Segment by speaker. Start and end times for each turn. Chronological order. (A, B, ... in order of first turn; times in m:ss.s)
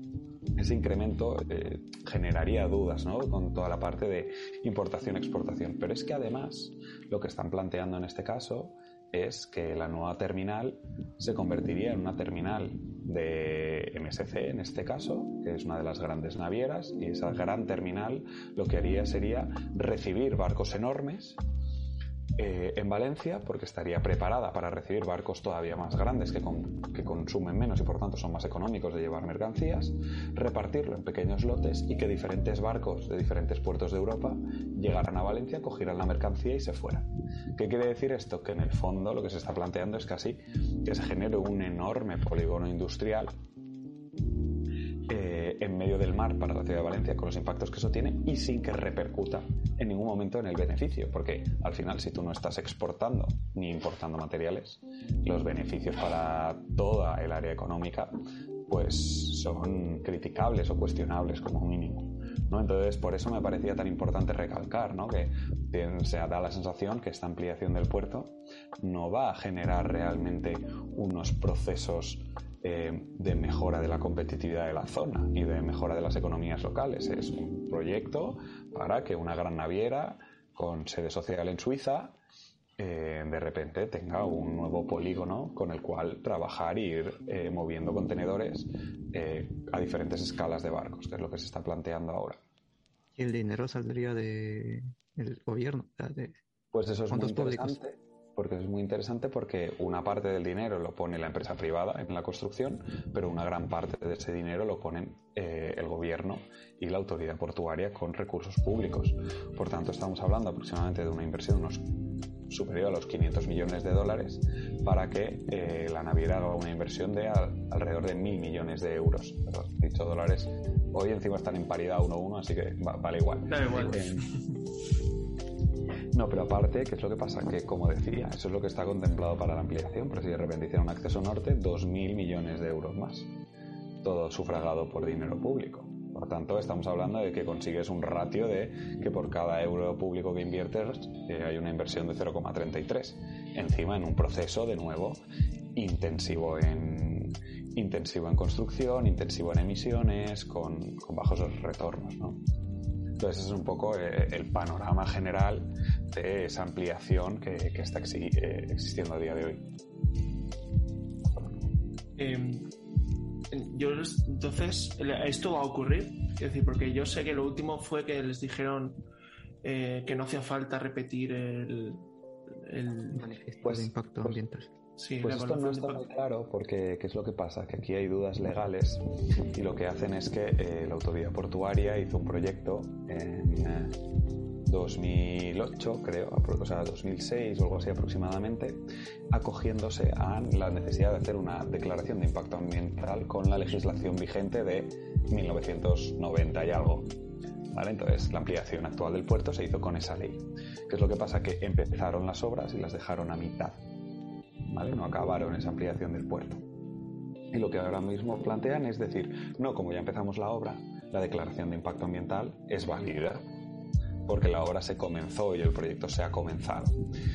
0:00.6-0:21.4 A
0:22.4-0:43.3 A
0:45.1-0:58.2 A
0:58.7-1:22.2 A
1:22.8-1:32.4 A
1:33.2-1:36.4 B
1:36.7-1:51.9 A
1:37.1-1:37.8 B
1:52.5-2:04.3 A
2:03.5-2:04.1 C
2:06.1-2:13.3 A
2:14.0-2:25.2 A
2:25.8-2:32.4 A
2:33.2-2:39.7 A
2:42.2-2:42.7 C
2:43.5-2:49.0 C
2:49.6-2:53.3 C
2:53.1-2:54.7 B
2:53.6-2:54.4 A
2:55.0-2:56.0 C
2:55.2-3:03.9 A
3:04.6-3:08.8 A
3:09.3-3:17.1 A
3:17.7-3:23.8 A
3:24.7-3:26.6 A
3:27.5-3:33.4 A
3:34.3-3:37.0 A